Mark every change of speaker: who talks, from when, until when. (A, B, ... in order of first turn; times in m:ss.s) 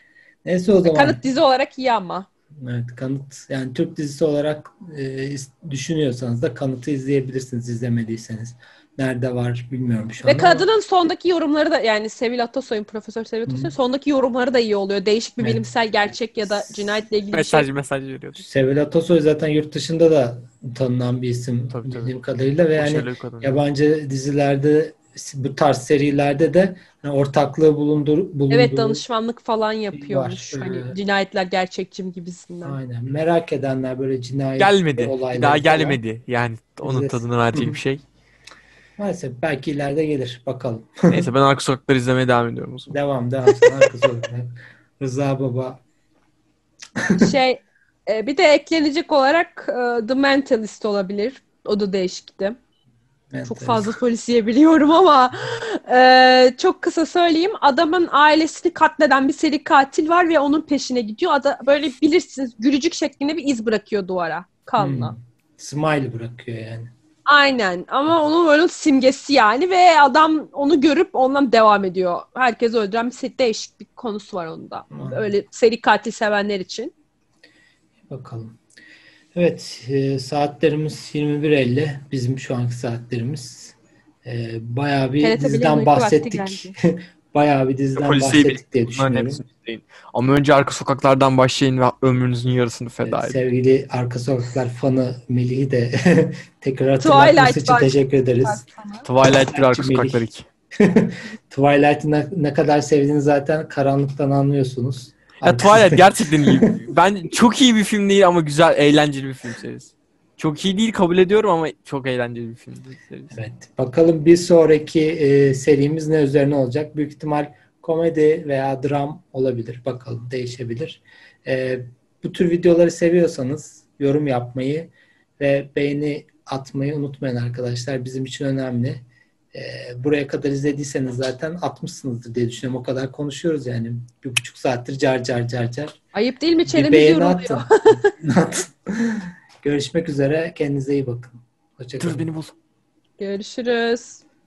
0:00.4-0:01.2 A
0:00.8-0:02.3 B
0:02.6-0:10.6 A
0:10.2-0:17.7 B
0:13.5-0:13.7 A
0:17.3-0:18.4 C
0:18.4-0:29.0 A
0:21.7-0:22.1 C
0:22.7-0:23.6 C
0:28.5-0:32.8 B
0:29.9-0:30.9 A
0:32.6-0:36.0 A
0:34.6-0:38.0 C
0:36.8-0:37.8 A
0:39.0-0:41.3 A
0:41.1-0:42.9 C
0:42.9-0:45.8 A
0:43.6-0:43.9 B
0:47.0-0:47.3 A
0:47.2-0:52.6 B
0:53.3-0:53.9 A
0:53.5-1:05.1 B
1:04.8-1:06.9 A
1:07.2-1:16.9 B
1:14.9-1:15.3 A
1:18.1-1:18.6 A
1:19.3-1:29.4 A
1:25.2-1:26.7 B
1:27.9-1:33.4 C
1:33.0-1:38.6 A
1:37.0-1:39.1 B
1:39.0-1:40.4 C
1:39.2-1:40.2 A
1:40.8-1:46.7 A
1:45.4-1:53.3 C
1:53.3-2:16.0 A
2:16.1-2:18.1 B
2:16.6-2:22.3 A
2:22.0-2:22.5 C
2:23.2-2:24.2 B